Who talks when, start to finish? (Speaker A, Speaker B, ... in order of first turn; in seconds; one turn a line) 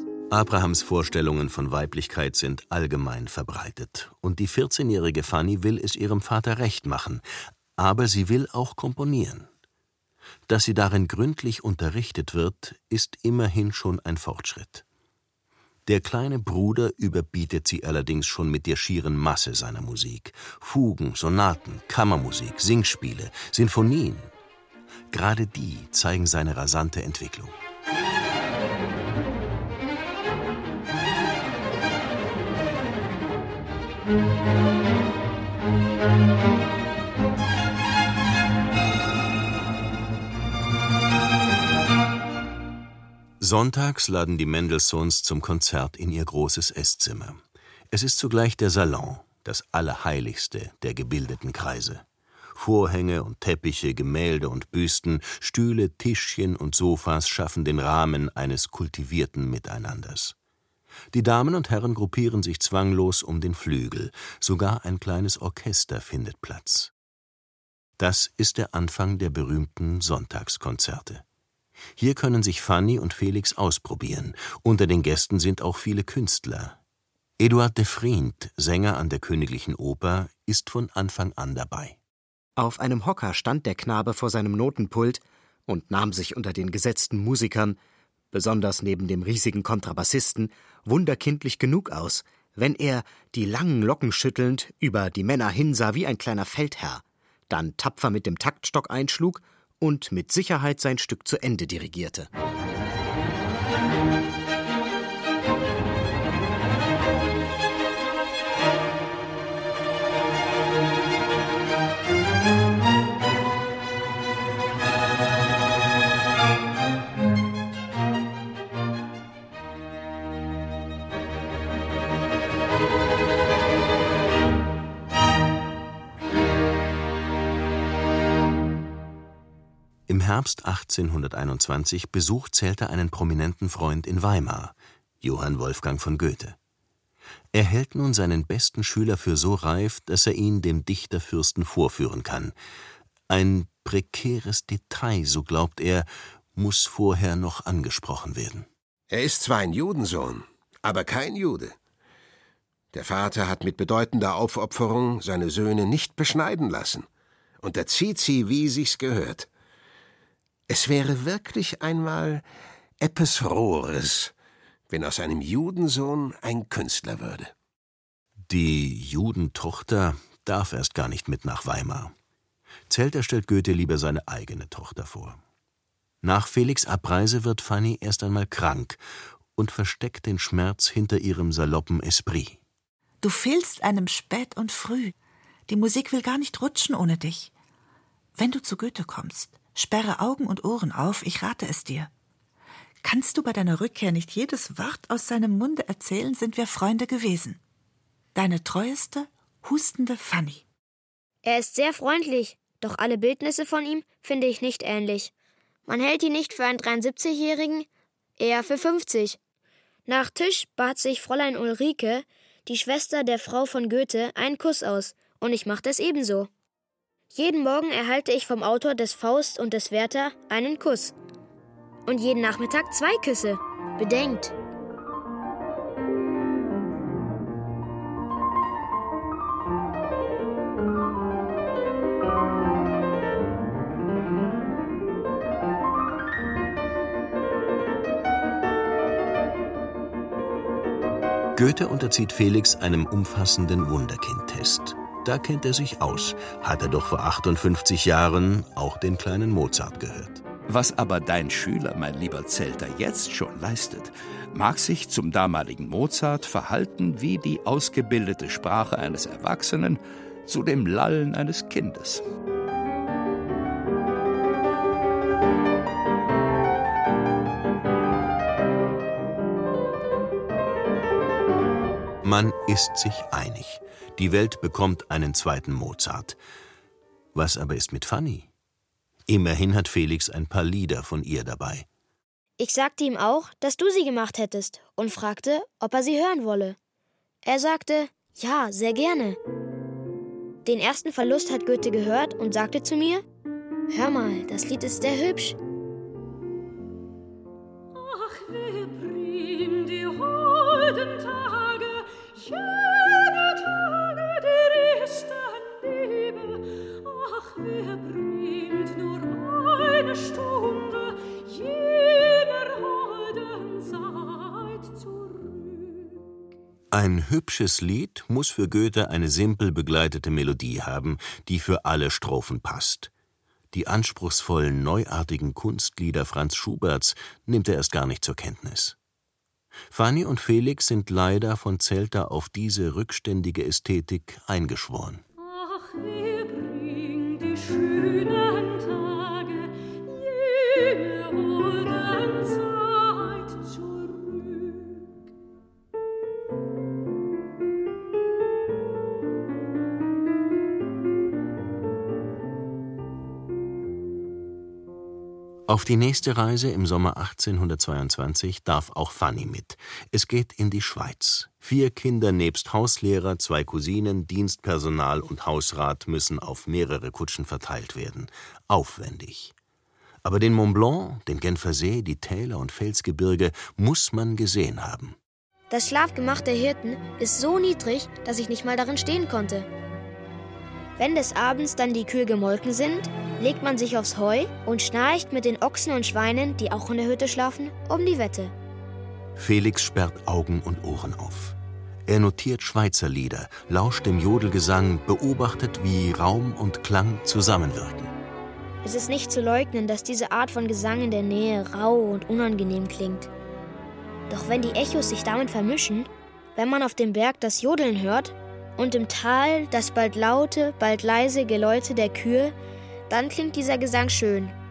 Speaker A: 0.3-7.2
Speaker A: 7.8-9.5
Speaker A: 10.5-14.8
Speaker A: 15.8-24.3
Speaker A: 25.1-27.6
Speaker A: 43.4-60.3
Speaker A: 61.1-66.9
Speaker A: 68.0-71.2
Speaker A: 72.0-76.8
Speaker A: 77.4-82.0
Speaker B: 82.6-87.8
Speaker B: 88.3-102.3
Speaker A: 130.1-136.6
Speaker A: 137.5-142.5
Speaker A: 143.3-148.7
Speaker C: 149.1-151.8
Speaker C: 152.9-157.1
Speaker C: 157.6-159.5
Speaker C: 160.7-162.4
Speaker C: 163.0-164.3
Speaker C: 164.9-167.5
Speaker A: 168.5-172.1
Speaker A: 172.9-175.4
Speaker A: 176.2-179.0
Speaker A: 179.6-182.6
Speaker D: 183.2-185.1
Speaker D: 185.7-187.5
Speaker D: 188.3-192.1
Speaker D: 193.0-197.6
Speaker D: 198.3-200.6
Speaker E: 201.4-205.3
Speaker E: 205.9-207.9
Speaker E: 208.4-209.4
Speaker E: 210.1-216.5
Speaker E: 217.3-221.1
Speaker E: 222.1-224.5
Speaker A: 241.6-250.4
Speaker F: 250.7-262.2
Speaker A: 272.2-276.4
Speaker A: 277.3-278.5
Speaker A: 279.3-281.9
Speaker E: 282.6-286.8
Speaker E: 287.4-289.4
Speaker E: 290.6-293.2
Speaker E: 293.9-295.6
Speaker G: 297.9-316.2
Speaker A: 316.9-323.1
Speaker A: 323.7-328.9
Speaker A: 329.9-335.2
Speaker G: 335.4-345.1
Speaker A: 355.7-369.5
Speaker A: 370.2-375.2
Speaker E: 375.7-379.7
Speaker E: 381.0-388.5
Speaker A: 389.4-391.6
Speaker A: 392.1-398.1
Speaker E: 398.8-403.3
Speaker E: 404.3-412.5
Speaker E: 413.1-414.5